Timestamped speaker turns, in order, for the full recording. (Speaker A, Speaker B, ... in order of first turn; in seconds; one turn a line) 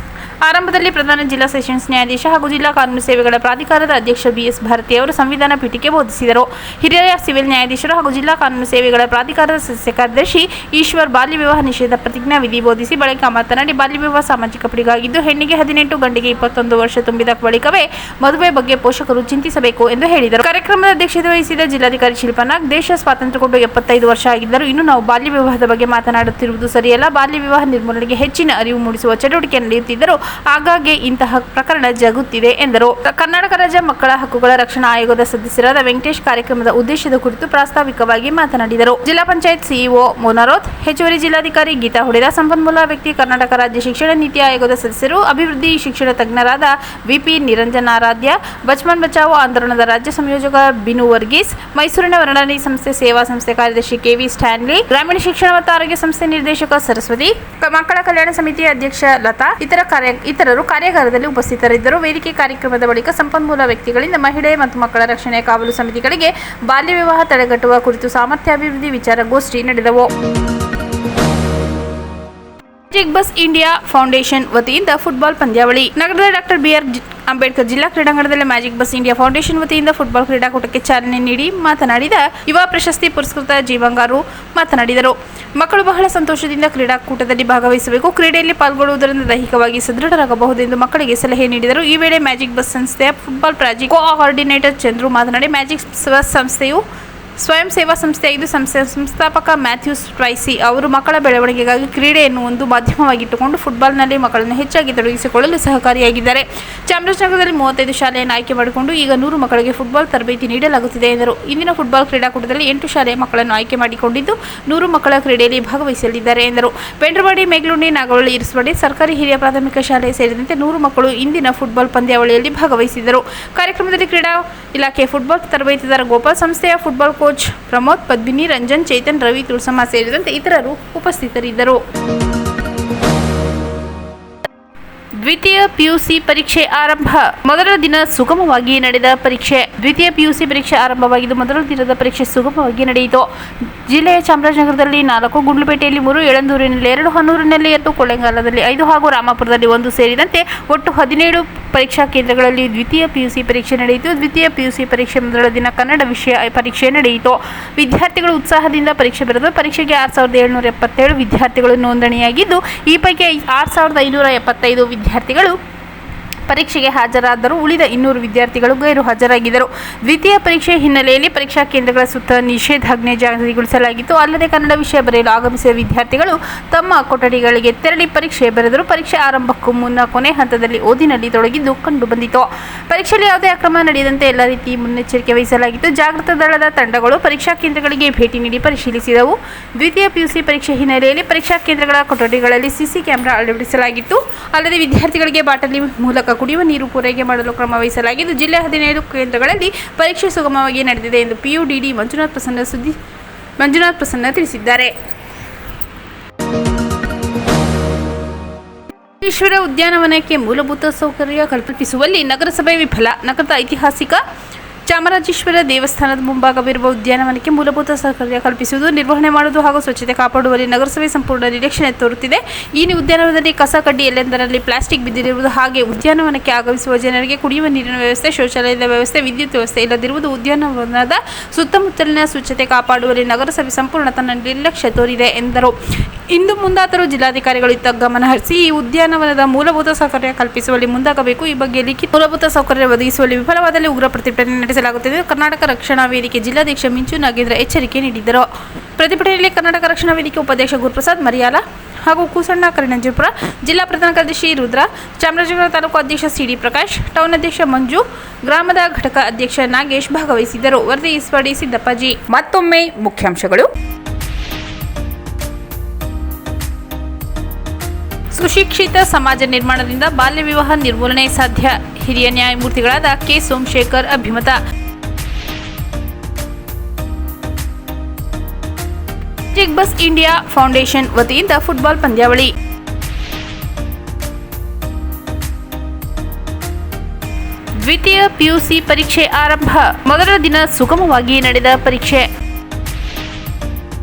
Speaker A: 0.4-70.1
Speaker A: 72.9-96.8
Speaker A: 97.4-131.8
Speaker A: 135.2-143.3
Speaker A: 143.8-165.6
Speaker A: 166.5-202.9
Speaker A: 203.6-204.9
Speaker A: 209.2-214.2
Speaker A: 214.8-263.7
Speaker A: 268.3-274.6
Speaker A: 279.5-282.5
Speaker A: 287.8-292.3